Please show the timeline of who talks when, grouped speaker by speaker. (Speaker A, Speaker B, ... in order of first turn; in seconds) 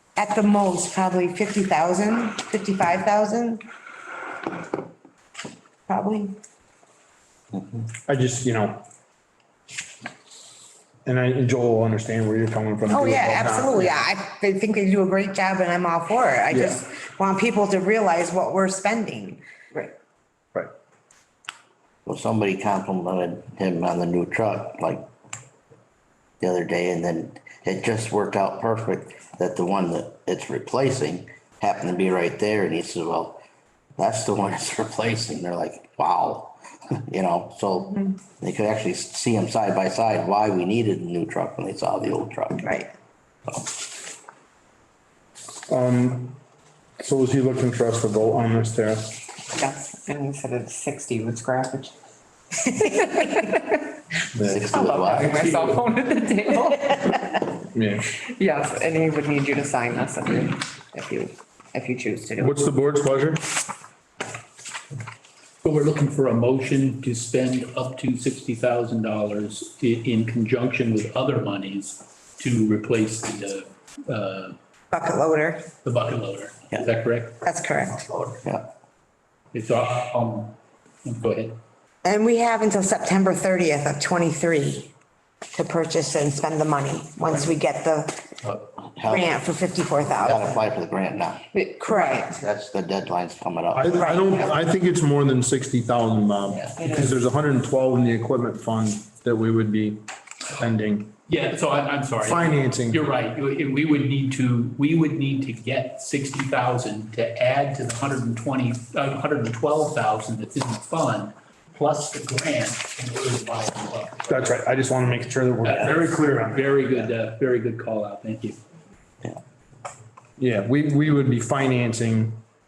Speaker A: 0.2-3.6, 5.9-6.3, 12.9-19.4, 42.6-42.9, 74.9-75.7, 77.4-78.0, 82.0-84.9, 85.5-88.2, 89.1-90.5, 91.8-92.3, 94.0-94.2
Speaker B: 8.1-8.8, 11.1-14.0, 16.5-16.8, 45.7-46.4, 47.0-49.1, 54.4-54.6, 57.7-58.2, 62.4-63.4, 93.7-101.1, 102.2-103.0, 114.3-116.6, 120.4-122.4
Speaker C: 22.1-25.1, 26.4-33.4, 34.0-42.7, 54.4-55.5, 88.9-89.3, 90.2-91.4, 92.4-94.6
Speaker D: 49.5-51.9, 52.6-54.0, 54.7-57.6, 58.2-62.6, 91.5-92.4, 96.7-97.2
Speaker E: 65.6-74.6, 75.8-77.4, 79.5-81.6, 101.3-114.6, 115.6-118.6